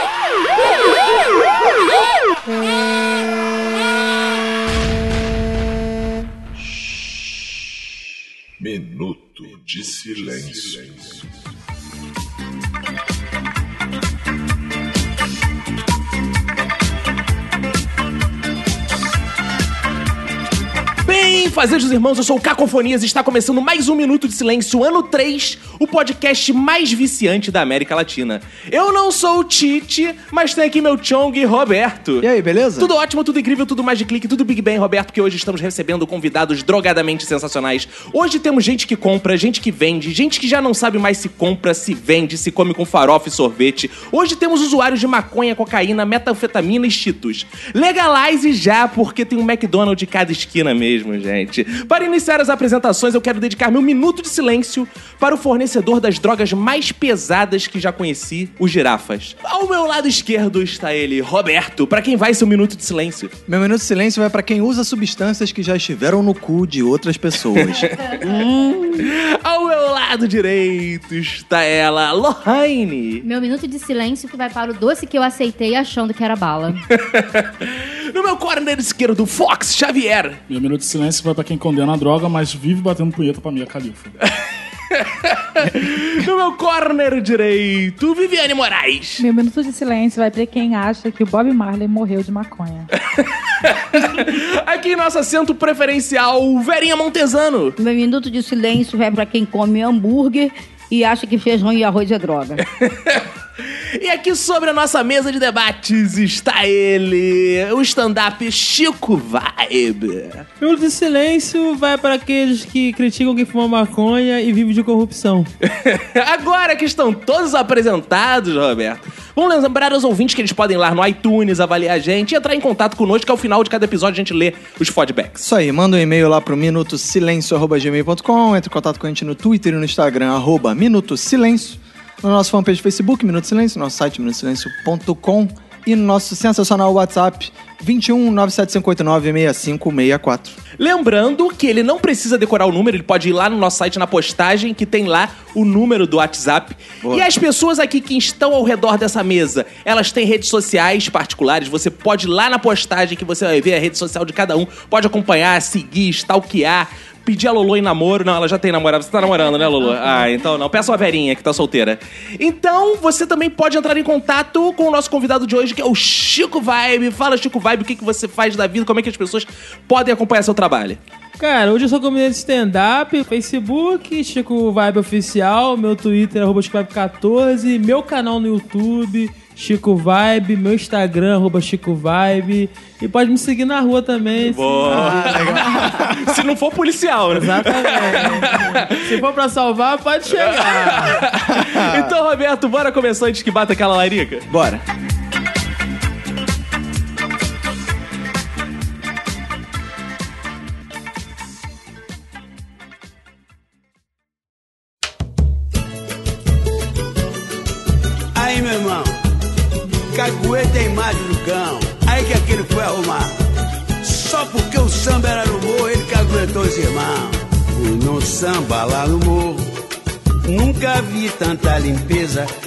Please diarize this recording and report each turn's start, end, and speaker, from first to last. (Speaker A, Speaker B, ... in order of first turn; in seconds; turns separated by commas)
Speaker A: 8.6-11.3, Speaker B: 21.0-63.3, Speaker C: 32.2-32.9, Speaker C: 63.5-67.8, Speaker B: 67.4-68.2, Speaker D: 68.2-69.1, Speaker B: 69.0-73.2, Speaker E: 73.2-76.8, Speaker B: 76.9-80.4, Speaker F: 80.5-84.2, Speaker B: 84.9-89.2, Speaker G: 89.2-92.9, Speaker B: 93.1-97.8, Speaker D: 97.8-102.6, Speaker B: 102.7-103.2, Speaker B: 104.0-110.4, Speaker H: 110.6-115.5, Speaker B: 115.6-125.5, Speaker C: 125.4-140.6, Speaker B: 140.8-171.0, Speaker C: 147.0-147.3, Speaker E: 159.2-160.3, Speaker H: 171.4-185.4, Speaker B: 184.5-189.0, Speaker C: 184.9-186.4, Speaker H: 187.3-191.2, Speaker B: 190.4-194.5, Speaker C: 191.5-192.1, Speaker C: 194.5-194.8, Speaker I: 208.3-209.1, Speaker I: 210.1-213.3, Speaker I: 214.0-219.6, Speaker I: 220.4-222.5